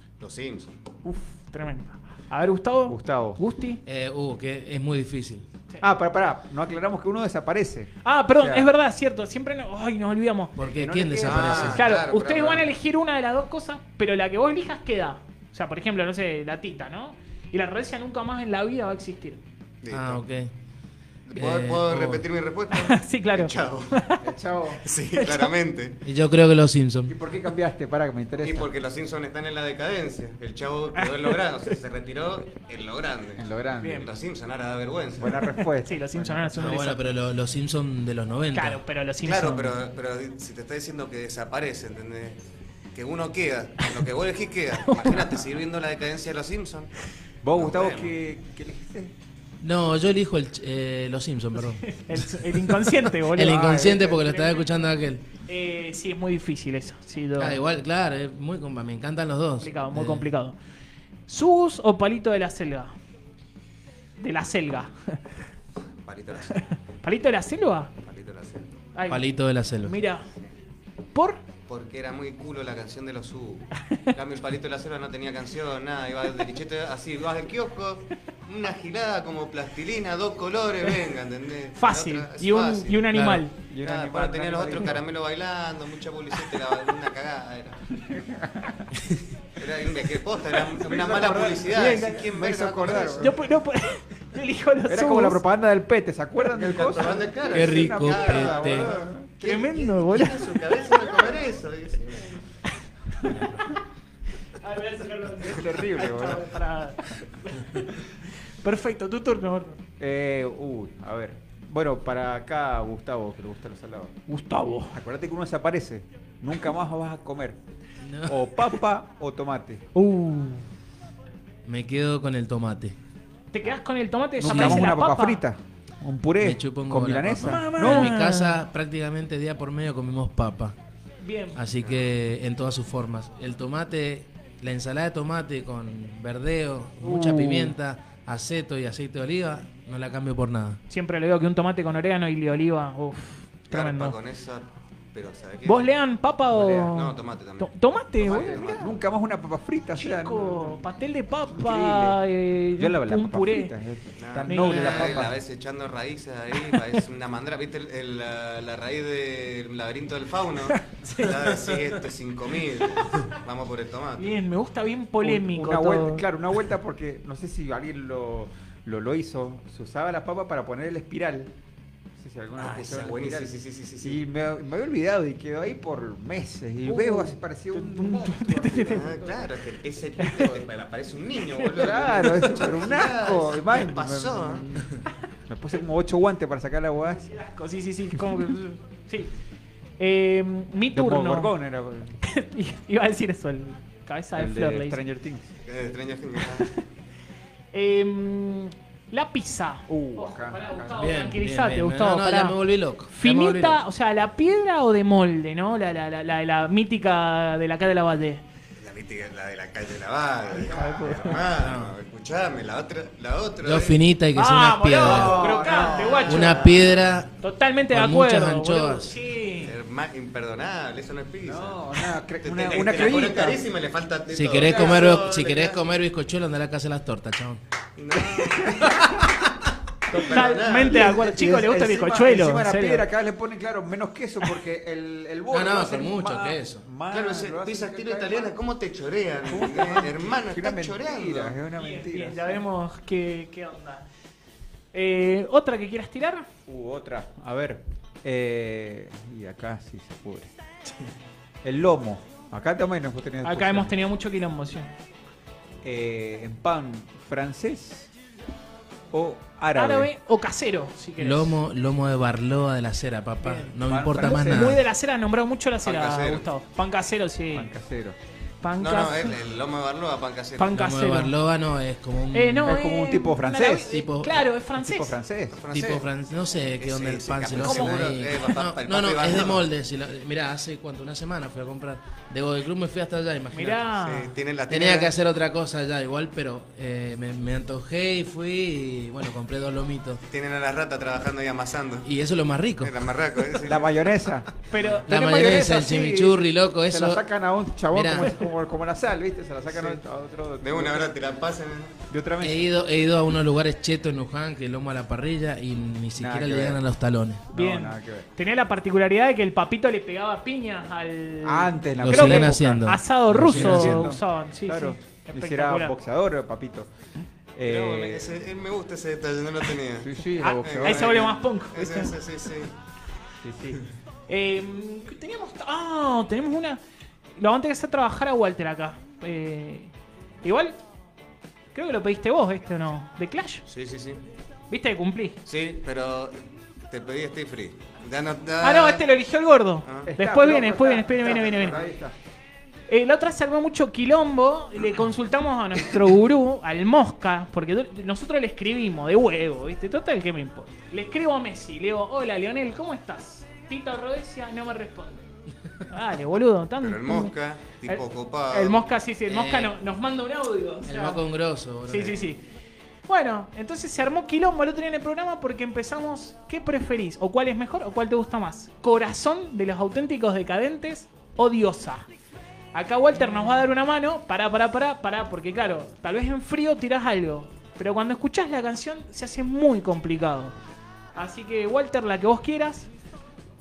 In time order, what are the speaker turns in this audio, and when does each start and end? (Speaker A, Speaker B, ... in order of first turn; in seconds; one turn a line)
Speaker A: 0.2-0.8
Speaker B: 1.5-3.8
Speaker C: 2.9-3.4
Speaker D: 3.9-5.5
Speaker C: 5.8-8.7
Speaker B: 8.0-10.6
Speaker D: 10.6-11.8
Speaker A: 10.8-12.7
Speaker B: 11.4-19.4
Speaker A: 19.8-20.2
Speaker D: 19.9-20.5
Speaker A: 21.3-24.0
Speaker D: 21.4-22.2
Speaker B: 22.7-24.2
Speaker C: 24.2-24.8
Speaker A: 24.8-26.0
Speaker B: 25.2-25.5
Speaker D: 26.0-27.1
Speaker C: 27.1-28.7
Speaker A: 28.4-35.5
Speaker B: 31.0-31.4
Speaker C: 33.4-34.1
Speaker B: 33.8-34.1
Speaker C: 35.2-37.0
Speaker B: 35.8-37.0
Speaker D: 36.6-38.8
Speaker B: 38.5-39.8
Speaker A: 39.2-42.4
Speaker A: 43.0-46.9
Speaker C: 47.4-49.1
Speaker A: 47.5-48.1
Speaker D: 49.6-52.7
Speaker B: 51.8-54.6
Speaker D: 53.2-55.2
Speaker C: 53.4-54.2
Speaker B: 55.5-57.6
Speaker D: 57.4-60.3
Speaker B: 59.6-60.6
Speaker B: 61.3-62.9
Speaker B: 64.2-65.2
Speaker A: 66.0-66.7
Speaker B: 67.0-67.9
Speaker A: 68.0-68.7
Speaker B: 69.0-69.3
Speaker D: 69.1-70.0
Speaker B: 69.8-70.2
Speaker B: 71.1-71.4
Speaker A: 71.7-83.1
Speaker B: 81.8-83.5
Speaker D: 83.1-83.4
Speaker C: 83.7-85.0
Speaker A: 83.8-87.8
Speaker C: 88.1-88.9
Speaker A: 89.6-93.4
Speaker C: 90.7-93.4
Speaker B: 93.2-95.4
Speaker C: 94.9-99.3
Speaker A: 96.5-102.4
Speaker D: 97.5-98.9
Speaker B: 99.4-100.6
Speaker B: 103.2-103.8
Speaker B: 104.6-109.8
Speaker C: 105.4-106.5
Speaker C: 110.0-114.2
Speaker B: 114.3-115.0
Speaker C: 114.9-117.6
Speaker D: 118.0-118.3
Speaker C: 118.3-119.9
Speaker B: 120.0-120.6
Speaker D: 121.7-123.0
Speaker B: 123.5-125.4
Speaker C: 124.4-128.2
Speaker D: 124.5-124.9
Speaker D: 126.4-130.8
Speaker B: 127.4-128.6
Speaker B: 131.2-131.6
Speaker D: 131.6-140.8
Speaker A: 131.8-132.1
Speaker B: 137.0-137.8
Speaker B: 140.9-144.2
Speaker A: 143.7-145.9
Speaker B: 145.7-148.6
Speaker C: 146.5-146.9
Speaker A: 146.9-149.0
Speaker C: 148.3-150.8
Speaker B: 150.0-153.7
Speaker C: 151.5-152.2
Speaker C: 152.8-155.4
Speaker A: 154.2-164.3
Speaker B: 154.5-155.0
Speaker D: 154.7-155.3
Speaker B: 160.8-161.4
Speaker B: 164.2-166.2
Speaker C: 165.2-171.5
Speaker C: 172.2-179.5
Speaker A: 172.6-174.2
Speaker B: 176.8-179.1
Speaker A: 178.9-184.7
Speaker C: 181.8-184.9
Speaker C: 185.5-187.3
Speaker B: 187.2-189.3
Speaker B: 190.0-191.5
Speaker C: 190.9-192.2
Speaker B: 192.2-195.0
Speaker C: 194.3-195.5
Speaker A: 195.7-196.7
Speaker B: 197.7-202.6
Speaker C: 199.9-201.2
Speaker D: 201.0-203.8
Speaker B: 203.1-208.4
Speaker A: 208.8-214.0
Speaker C: 210.6-211.4
Speaker B: 210.7-211.4
Speaker D: 211.5-211.9
Speaker D: 213.6-215.5
Speaker B: 214.3-216.7
Speaker C: 215.0-216.7
Speaker A: 215.1-217.1
Speaker D: 216.3-217.3
Speaker B: 217.4-219.7
Speaker D: 217.9-219.1
Speaker A: 219.6-221.8
Speaker C: 221.4-223.6
Speaker A: 222.4-225.8
Speaker D: 224.3-227.6
Speaker C: 224.6-225.2
Speaker A: 228.0-229.0
Speaker D: 228.7-229.3
Speaker A: 230.1-231.2
Speaker C: 230.1-238.6
Speaker B: 230.1-233.1
Speaker D: 235.5-236.8
Speaker A: 237.1-241.6
Speaker C: 239.5-242.6
Speaker B: 241.8-244.1
Speaker B: 244.9-246.5
Speaker C: 246.7-250.5
Speaker C: 251.6-254.0
Speaker B: 253.4-254.9
Speaker C: 255.8-258.1
Speaker C: 259.1-260.1
Speaker B: 259.8-261.6
Speaker D: 261.2-264.8
Speaker B: 263.4-267.7
Speaker C: 263.8-264.8
Speaker A: 265.8-266.5
Speaker C: 267.5-268.2
Speaker B: 268.6-269.4
Speaker A: 268.8-270.8
Speaker B: 270.6-271.3
Speaker D: 270.7-272.8
Speaker B: 272.3-275.1
Speaker C: 272.7-274.0
Speaker D: 273.9-274.5
Speaker C: 274.8-275.6
Speaker A: 275.6-276.1
Speaker D: 275.7-283.8
Speaker A: 276.8-279.7
Speaker B: 277.6-278.0
Speaker B: 283.5-284.3
Speaker A: 284.0-285.1
Speaker D: 284.7-290.2
Speaker A: 290.3-292.1
Speaker D: 292.1-292.9
Speaker A: 292.8-293.9
Speaker C: 293.6-301.1
Speaker B: 294.7-295.6
Speaker D: 295.1-297.2
Speaker D: 297.9-298.3
Speaker A: 300.6-301.9
Speaker C: 302.1-302.7
Speaker D: 302.4-307.4
Speaker C: 306.2-306.9
Speaker C: 307.5-308.3
Speaker B: 307.5-315.9
Speaker C: 311.4-316.9
Speaker D: 312.0-314.1
Speaker C: 317.5-318.4
Speaker A: 317.6-322.7
Speaker C: 320.0-321.2
Speaker B: 320.4-322.2
Speaker C: 323.4-323.8
Speaker B: 324.3-326.8
Speaker B: 327.4-329.9
Speaker B: 330.4-330.8
Speaker B: 331.7-333.6
Speaker A: 333.7-334.2
Speaker B: 334.7-335.4
Speaker A: 335.5-336.4
Speaker A: 336.9-339.1
Speaker B: 338.6-341.8
Speaker A: 339.8-340.1
Speaker C: 340.1-342.1
Speaker A: 341.3-341.9
Speaker B: 342.9-355.3
Speaker B: 355.9-357.3
Speaker A: 356.8-358.8
Speaker B: 357.9-361.2
Speaker D: 359.3-359.7
Speaker D: 360.9-362.2
Speaker B: 361.9-362.4
Speaker B: 363.1-372.1
Speaker B: 372.7-380.6
Speaker B: 381.1-382.9